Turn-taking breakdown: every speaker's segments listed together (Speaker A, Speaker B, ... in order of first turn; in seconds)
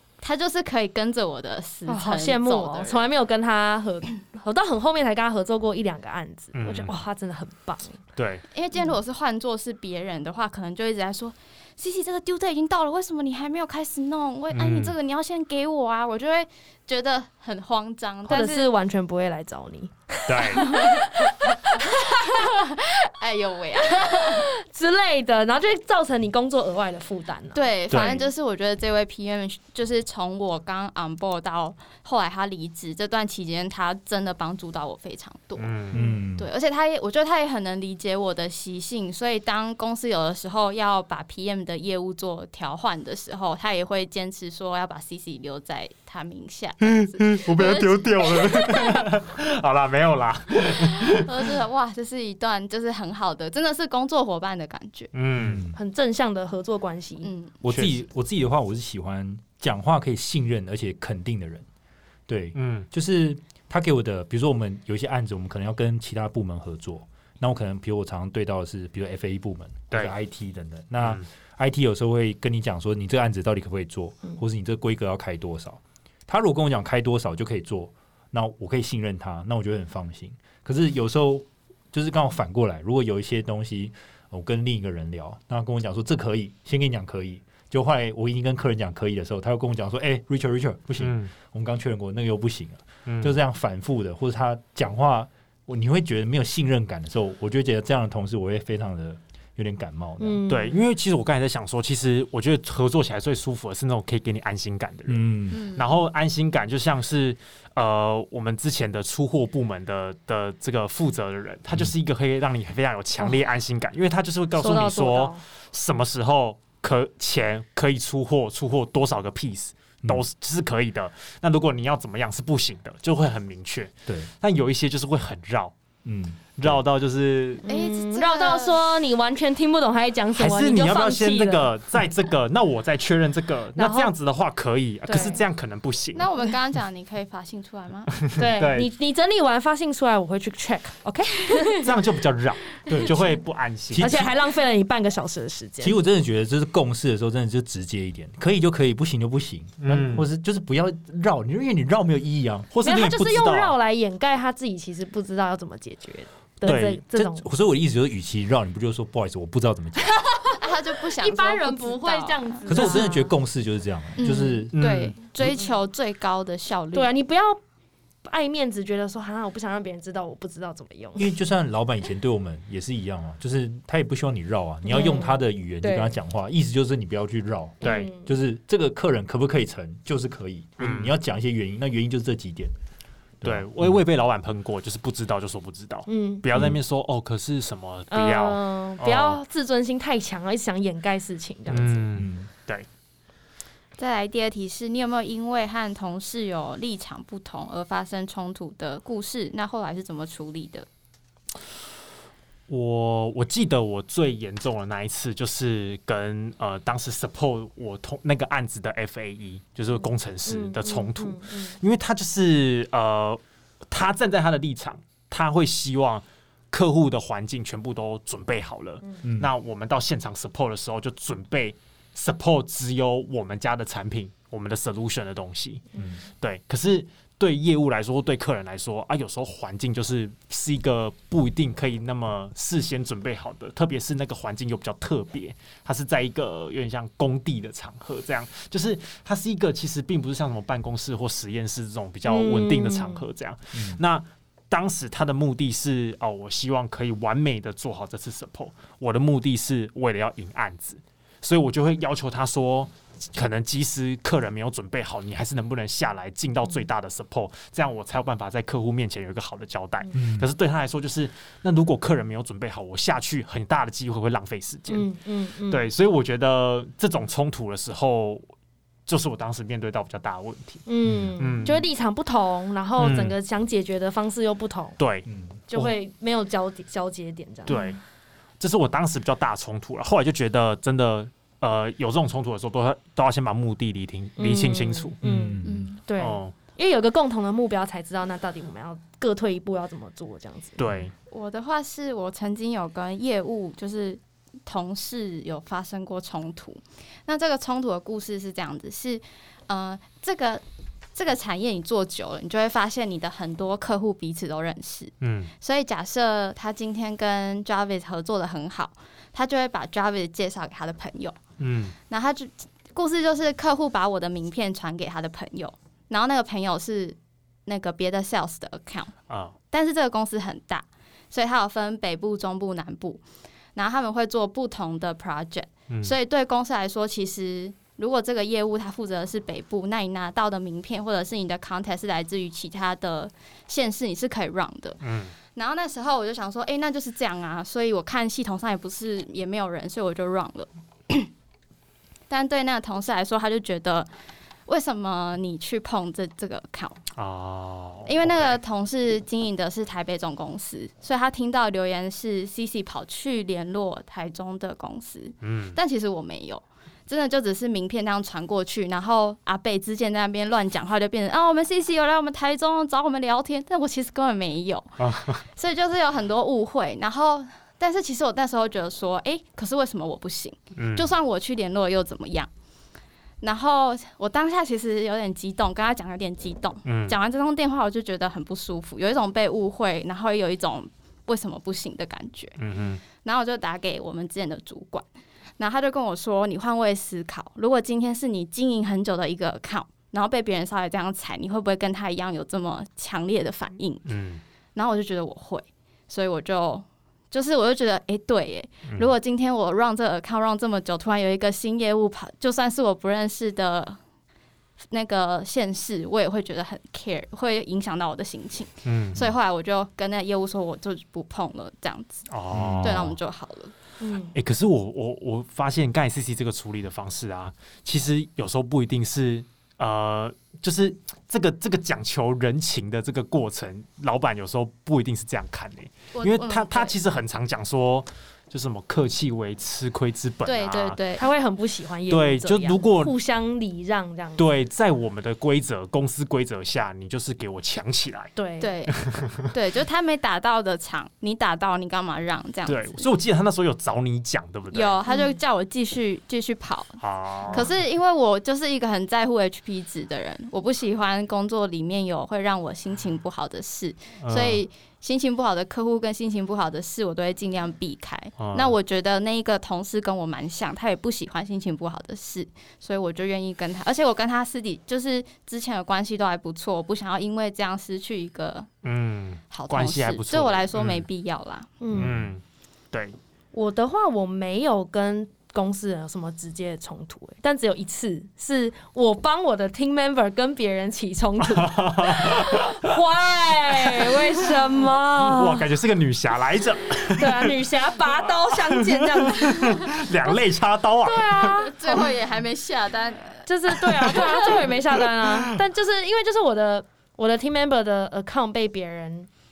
Speaker A: 0.2-3.1, 8.5-18.7, 20.6-21.0, 21.9-24.4, 27.5-49.1, 50.6-55.1, 57.2-57.6, 105.5-106.0, 127.6-128.8, 136.1-138.1, 160.6-163.0, 164.2-167.1, 194.0-200.9, 285.6-286.0, 291.3-300.6, 301.1-311.4, 312.0-323.2, 323.7-335.0, 335.5-341.3, 342.3-344.1, 344.6-347.0, 348.1-372.5, 373.4-382.6, 383.1-385.1, 385.6-394.1, 394.7-404.0, 404.9-412.3, 412.8-413.7, 426.1-427.0, 430.4-431.2, 438.6-443.0, 444.7-468.7, 469.5-471.7, 491.5-493.4, 494.0-494.5
Speaker B: 1.9-8.0, 18.3-22.5, 24.0-27.6, 35.9-36.2, 55.7-57.3, 100.2-100.8, 114.6-115.4, 127.6-131.7, 133.8-134.1, 135.1-135.4, 138.3-141.9, 143.9-145.9, 152.8-157.4, 161.2-163.3, 166.9-167.6, 168.2-171.2, 174.8-176.2, 177.8-178.3, 186.1-186.4, 188.1-192.1, 210.4-211.8, 242.3-243.2, 264.9-265.9, 270.9-275.0, 275.7-277.9, 284.4-290.8, 414.0-414.3, 431.1-434.5, 438.4-438.7, 445.1-445.4, 471.8-472.1, 473.5-485.6, 487.1-490.4, 491.0-492.0, 493.4-499.3
Speaker C: 6.5-6.9, 8.2-8.4, 14.5-14.9, 20.3-20.8, 27.9-28.3, 35.6-36.0, 46.8-51.5, 55.1-55.6, 57.6-57.9, 62.5-62.9, 91.0-91.3, 93.0-93.3, 100.5-125.7, 126.6-127.6, 130.3-136.3, 138.2-138.9, 141.7-144.3, 149.8-150.3, 152.7-153.7, 156.6-157.0, 162.7-163.1, 164.7-165.2, 177.8-178.1, 180.8-181.1, 183.4-189.4, 191.7-192.9, 202.7-225.9, 226.4-265.1, 265.7-268.4, 269.1-270.8, 271.4-271.8, 273.0-273.4, 275.0-275.9, 277.7-278.0, 278.6-285.1, 286.2-286.5, 290.8-291.1, 305.2-305.5, 311.6-311.9, 319.3-319.5, 325.9-326.1, 335.0-335.4, 347.1-348.6, 355.4-355.8, 365.0-365.4, 370.8-371.1, 376.8-377.2, 382.6-383.0, 394.1-394.4, 408.8-409.3, 412.3-413.2, 414.3-431.0, 432.1-433.1, 434.4-438.3, 438.9-439.4, 442.6-445.0, 447.0-447.7, 454.2-454.6, 458.4-458.8, 468.8-471.1, 472.0-473.1, 481.4-482.8, 483.8-484.1, 485.2-487.5, 488.1-492.0, 494.0-494.6, 495.1-495.5
Speaker D: 35.9-36.5, 55.4-55.8, 57.6-61.6, 62.3-100.4, 105.1-105.6, 126.0-126.8, 143.9-144.3, 145.8-152.7, 157.1-160.2, 162.7-164.7, 171.2-182.7, 183.4-184.0, 191.7-192.5, 219.2-219.5, 243.7-244.0, 260.1-260.5, 271.0-271.7, 275.2-275.6, 285.2-285.9, 412.5-413.1, 471.9-472.3